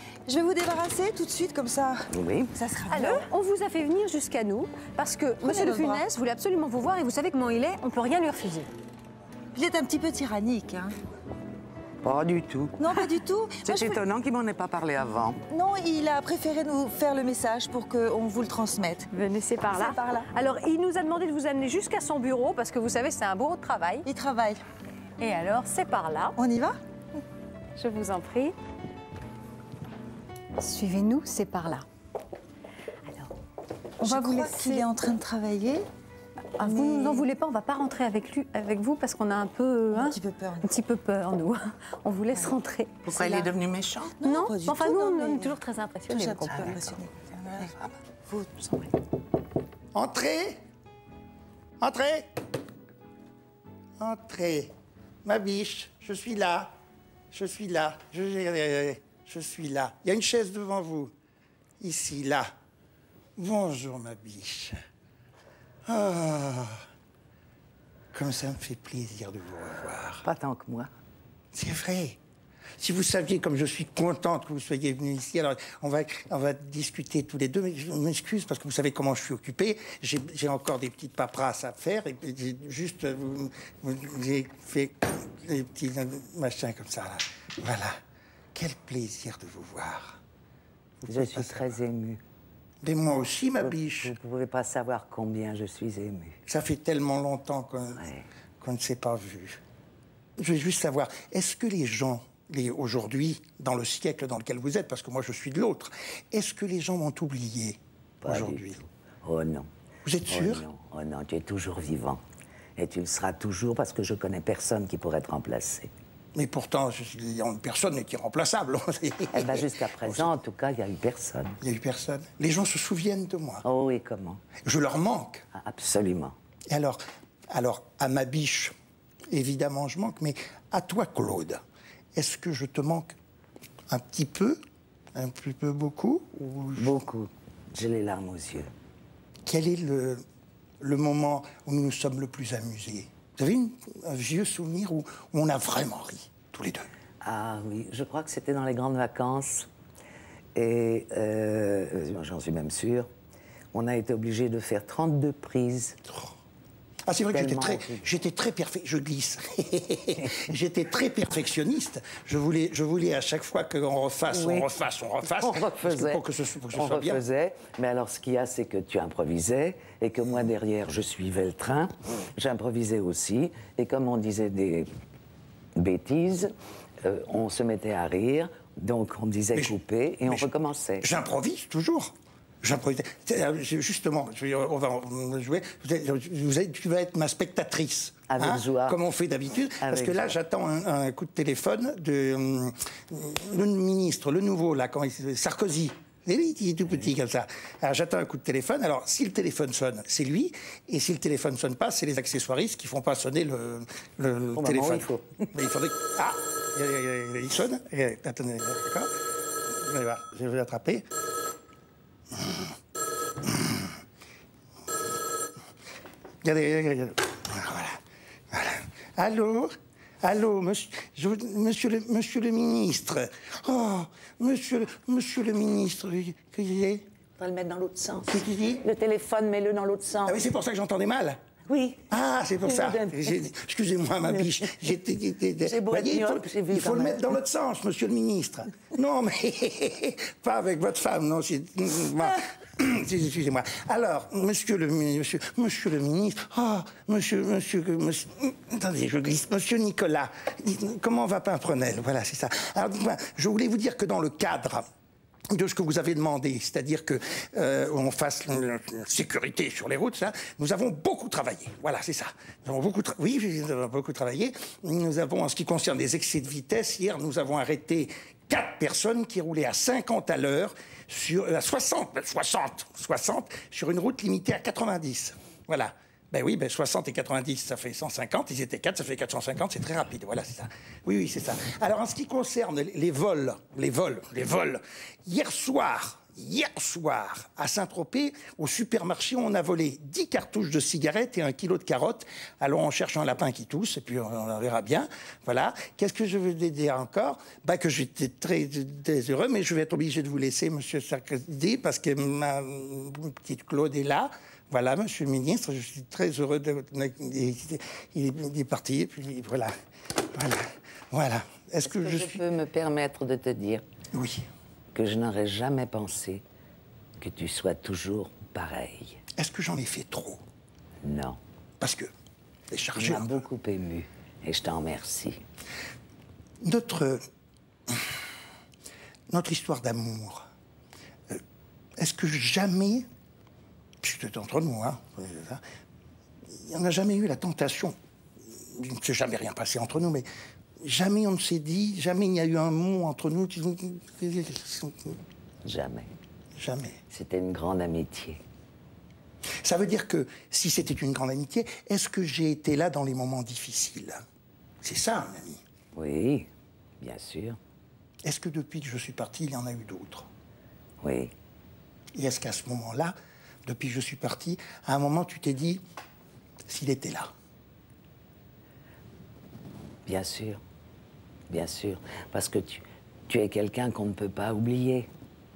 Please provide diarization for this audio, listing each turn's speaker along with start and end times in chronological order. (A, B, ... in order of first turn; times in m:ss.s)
0:00.3-0:03.3 A
0:02.1-0:02.5 B
0:02.9-0:08.7 C
0:05.4-0:06.0 A
0:09.5-0:11.0 A
0:12.0-0:13.1 B
0:12.8-0:14.0 A
0:13.6-0:15.4 B
0:15.5-0:19.1 A
0:19.1-0:24.1 C
0:19.7-0:20.3 A
0:24.0-0:24.6 A
0:25.2-0:26.4 C
0:26.4-0:26.8 A
0:27.8-0:28.6 C
0:30.6-0:31.9 C
0:34.0-0:35.9 A
0:34.0-0:34.9 C
0:36.6-0:43.0 C
0:36.6-0:37.3 A
0:39.9-0:40.7 A
0:43.0-0:44.2 B
0:43.2-0:43.5 A
0:44.2-0:47.7 A
0:44.2-0:46.8 C
0:46.4-0:47.0 B
0:48.3-0:48.9 A
0:49.9-0:50.6 D
0:51.8-0:52.3 D
0:54.0-0:54.7 D
0:55.2-0:56.7 D
0:57.3-1:01.1 D
1:01.8-1:02.5 D
1:03.4-1:04.8 D
1:05.9-1:06.8 D
1:08.1-1:10.3 D
1:10.2-1:10.9 B
1:11.5-1:12.2 D
1:12.8-1:28.0 D
1:28.6-1:30.2 D
1:31.0-1:31.8 D
1:31.1-1:32.2 B
1:32.8-1:34.2 D
1:33.6-1:36.4 B
1:36.5-1:38.0 D
1:38.0-1:38.3 B
1:38.6-1:39.6 D
1:40.4-1:48.8 D
1:48.2-1:49.7 B
1:50.0-1:50.6 D
1:50.3-1:52.2 B
1:52.8-1:55.9 B
1:56.4-2:00.3 D
1:59.3-2:01.6 B
2:01.6-2:03.6 D
2:03.6-2:04.4 B
2:04.6-2:05.4 D
2:05.5-2:06.4 B
2:06.7-2:07.0 D
2:07.5-2:08.7 D
2:09.3-2:11.6 D
2:12.1-2:13.2 D
2:13.9-2:14.6 D
2:15.2-2:17.0 D
2:16.8-2:18.7 B
2:19.5-2:20.2 D
2:20.8-2:26.9 D
2:27.2-2:29.7 B
2:30.6-2:33.1 B
2:33.7-2:36.0 B
2:37.1-2:47.2 D
2:37.3-2:38.0 B
2:44.3-2:44.7 B
2:45.2-2:54.9 B
2:55.8-3:01.1 B
2:59.5-3:29.1 D
3:08.3-3:09.0 B
3:09.8-3:10.4 B
3:24.6-3:25.4 B
3:29.7-3:31.0 D
3:32.4-3:32.7 D
3:33.4-3:33.9 D
3:36.4-3:38.0 D
3:38.5-3:47.0 D
3:47.4-3:50.4 B
3:48.3-3:48.8 D
3:50.2-3:51.4 D
3:51.7-3:53.3 B
3:52.1-4:14.9 D
3:54.3-3:54.8 B
3:55.6-3:57.4 B
4:15.5-5:09.7 D
5:10.3-5:12.4 D
5:11.8-5:13.8 B
5:14.1-5:14.4 D
5:14.9-5:16.4 B
5:17.2-5:19.2 B
5:19.4-5:20.4 D
5:21.0-5:21.4 B
5:21.8-5:22.1 D
5:22.7-5:23.4 D
5:22.9-5:25.4 B
5:26.6-5:27.2 D
5:29.3-5:30.5 D
5:32.0-5:33.0 D
5:34.0-5:35.6 D
5:36.6-5:38.0 D
5:38.7-5:40.3 D
5:40.8-5:45.2 D
5:45.6-5:46.1 B
5:46.6-5:47.0 D
5:47.1-5:48.4 B
5:49.6-5:54.2 D
5:54.8-5:55.6 D
5:55.9-5:56.5 B
5:57.0-5:57.6 B
5:58.2-6:00.3 D
6:01.0-6:01.3 B
6:02.2-6:03.1 D
6:03.6-6:05.8 D
6:06.7-6:07.3 D
6:10.1-6:10.6 B
6:11.5-6:15.1 B